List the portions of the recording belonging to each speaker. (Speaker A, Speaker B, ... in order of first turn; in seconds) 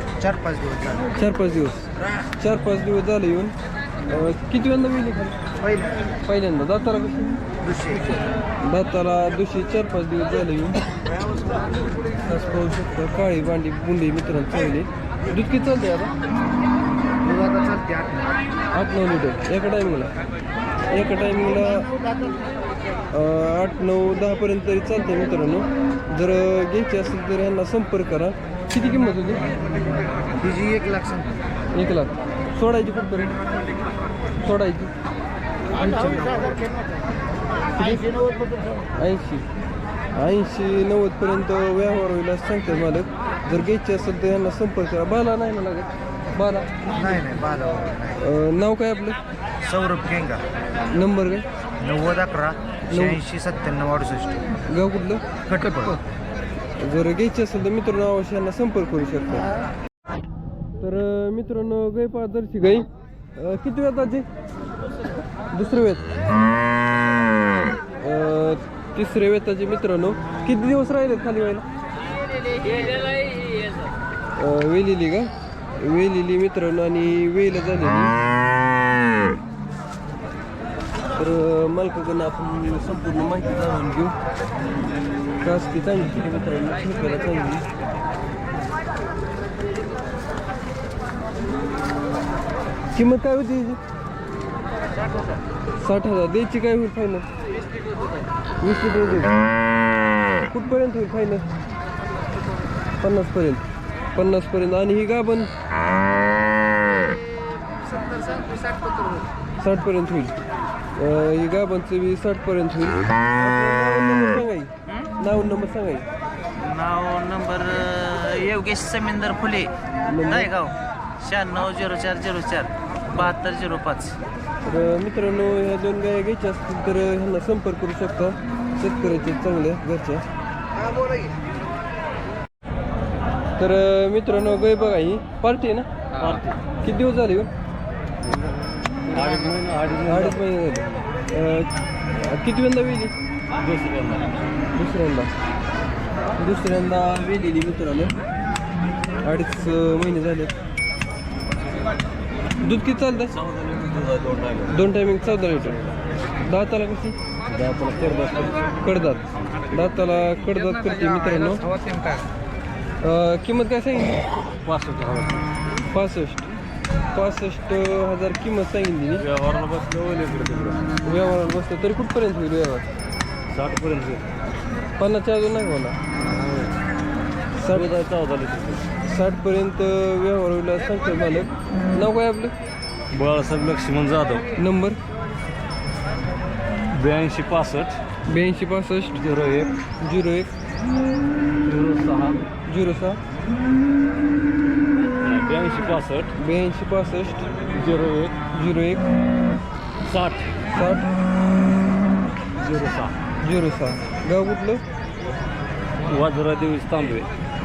Speaker A: 0.2-1.1, 5.6-6.0, 7.6-8.1, 17.2-18.4, 30.4-31.4, 35.8-36.6, 46.9-48.2, 49.6-50.4, 51.8-54.6, 55.5-56.0
Speaker B: 1.2-3.5, 4.1-5.4, 6.3-7.4, 8.7-10.8, 12.2-16.1, 18.8-20.1, 20.9-21.9, 23.1-29.4, 31.8-33.4, 34.4-34.9, 37.8-38.1, 39.0-39.5, 40.2-46.7, 48.2-49.2, 51.0-51.5, 52.9-53.2, 54.7-55.2, 56.8-59.5, 60.8-64.3, 65.5-66.1, 67.9-71.7, 74.4-78.2, 81.2-84.2, 85.4-87.7, 92.9-93.8, 95.8-97.3, 98.6-99.4, 100.5-101.5, 103.0-103.6, 104.2-105.5, 109.6-110.4, 111.0-116.1, 120.0-120.5, 124.7-130.2, 133.6-135.9, 136.8-137.5, 140.1-143.1, 144.7-145.3, 146.4-148.1, 149.2-150.5, 152.6-153.3, 154.7-155.8, 156.3-157.2, 158.8-161.7, 163.0-164.2, 165.9-166.5, 167.1-169.2, 171.1-172.9, 175.0-176.0, 177.6-177.9, 179.1-182.5, 184.6-185.0, 188.3-189.2, 190.0-190.5, 192.7-193.2, 196.4-197.4, 198.5-199.1, 200.7-201.1, 203.4-204.8
Speaker C: 116.6-119.7, 120.3-124.2
Speaker D: 136.2-136.6, 139.1-140.4, 143.6-144.3, 153.4-154.7, 157.5-158.6, 164.6-165.4, 169.2-170.8, 173.5-174.2, 176.4-176.7, 177.7-178.8, 183.1-184.5, 186.9-188.0, 189.2-189.7, 191.7-192.4, 195.2-196.3, 197.7-198.3, 200.1-200.5, 202.6-203.1, 206.1-207.3